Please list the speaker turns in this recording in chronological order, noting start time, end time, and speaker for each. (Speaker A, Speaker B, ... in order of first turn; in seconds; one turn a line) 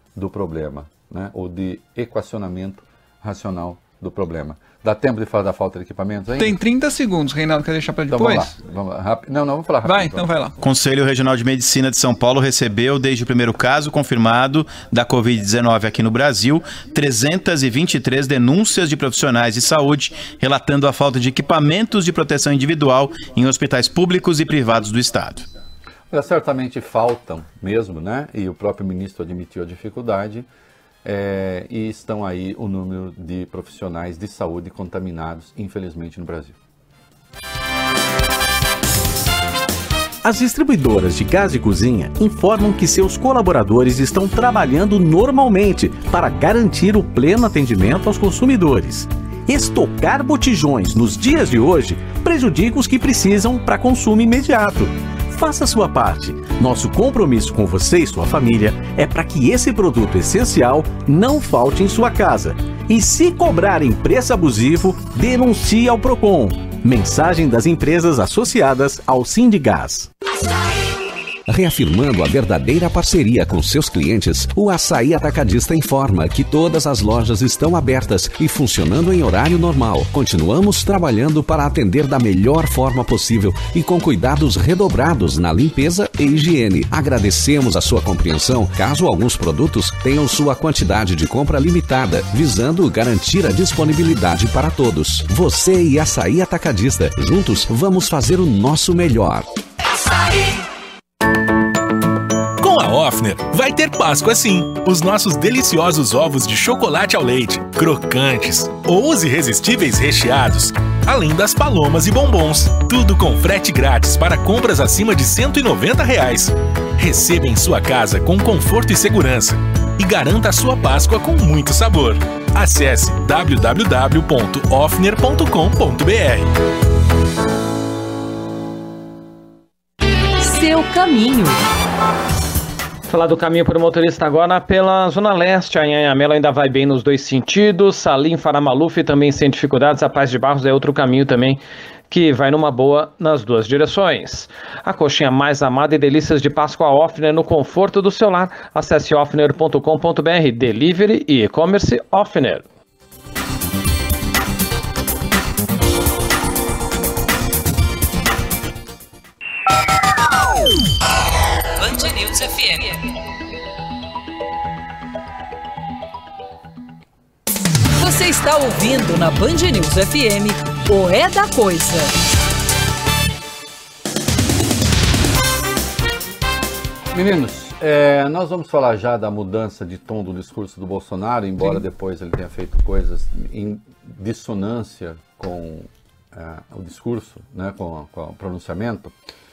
Speaker A: 0.1-6.6
Speaker B: 6.4-8.5
Speaker A: 8.1-10.2
Speaker B: 9.8-10.6
Speaker C: 10.6-25.5
Speaker A: 26.1-30.4
Speaker A: 31.0-36.5
Speaker D: 40.2-70.0
Speaker E: 71.5-99.5
Speaker F: 102.6-126.5
Speaker G: 130.4-131.6
Speaker H: 133.1-152.6
Speaker G: 161.7-163.1
Speaker G: 168.0-172.1
Speaker A: 177.1-189.1